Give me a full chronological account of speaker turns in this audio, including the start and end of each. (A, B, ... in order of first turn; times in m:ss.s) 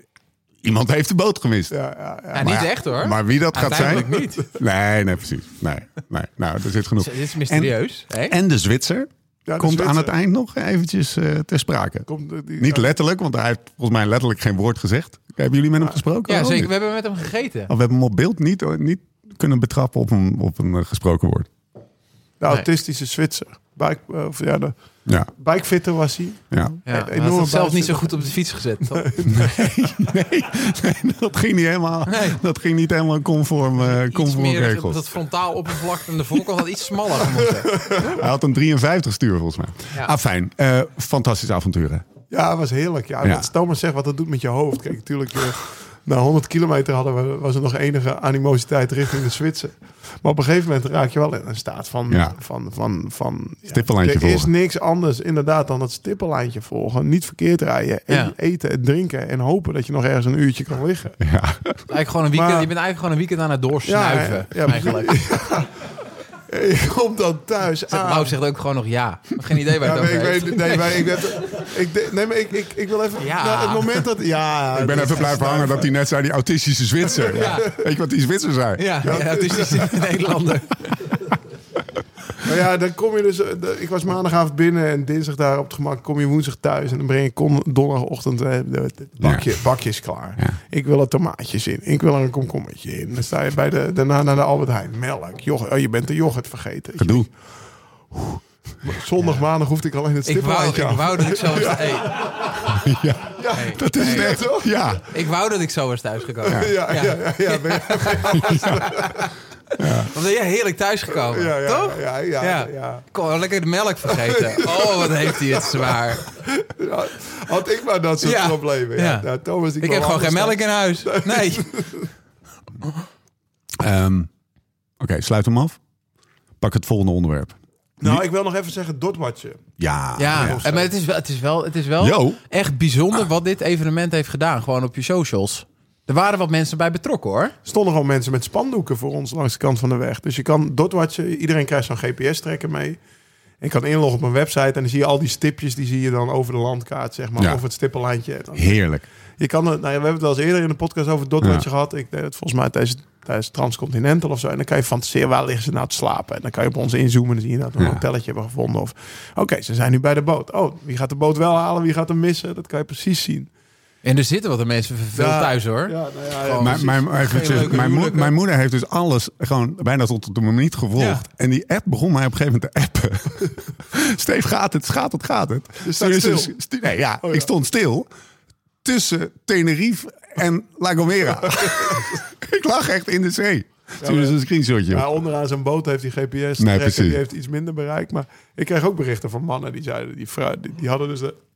0:00.6-0:01.8 A
0:01.7-0:02.7 B
0:02.3-0:04.5 C
0:02.4-0:16.7 A
0:03.9-0:04.4 B
0:07.0-0:08.4 C
0:09.5-0:10.1 B
0:12.1-0:13.0 B
0:16.3-0:17.7 C
0:17.7-0:21.5 A
0:22.4-0:24.7 B
0:25.3-0:28.3 B
0:26.5-0:26.8 A
0:26.9-0:29.2 C
0:28.8-0:29.5 B
0:29.3-0:35.0 A
0:32.1-0:32.4 C
0:33.8-0:37.9 C
0:37.2-0:38.2 B
0:38.0-0:42.0 A
0:42.3-1:01.2 B
0:52.1-0:52.4 A
0:53.7-0:54.5 A
0:58.1-0:58.3 C
1:01.2-1:01.8 A
1:01.9-1:05.2 C
1:02.3-1:02.7 B
1:03.9-1:08.4 B
1:07.9-1:11.6 C
1:09.8-1:15.9 B
1:13.2-1:14.0 C
1:14.7-1:19.2 A
1:17.2-1:17.7 B
1:17.3-1:17.7 C
1:18.8-1:21.1 C
1:19.0-1:20.0 B
1:22.4-1:37.3 B
1:29.2-1:29.5 A
1:37.0-1:37.3 A
1:38.1-1:42.7 B
1:40.2-1:42.6 C
1:42.6-1:45.1 A
1:43.3-1:44.8 B
1:43.5-1:44.3 C
1:45.1-1:49.3 C
1:46.4-1:49.2 B
1:48.3-1:48.8 A
1:49.8-1:50.1 A
1:50.0-1:56.3 C
1:51.2-1:53.0 B
1:54.1-2:02.1 B
1:58.2-1:59.3 C
1:59.8-2:01.8 C
2:03.8-2:04.3 A
2:05.0-2:05.8 A
2:06.6-2:08.2 A
2:08.0-2:09.6 B
2:09.8-2:10.6 A
2:10.2-2:17.6 C
2:10.3-2:10.9 B
2:12.0-2:12.4 A
2:17.6-2:23.0 B
2:23.6-2:28.8 B
2:28.6-2:29.0 A
2:29.4-2:43.5 B
2:44.0-2:48.3 C
2:45.2-2:47.9 B
2:46.6-2:58.1 A
2:51.0-2:51.2 C
2:55.8-2:56.6 B
2:57.2-2:57.5 B
2:58.8-3:05.1 A
3:01.6-3:02.1 B
3:04.0-3:04.4 B
3:04.9-3:11.4 B
3:06.6-3:07.2 A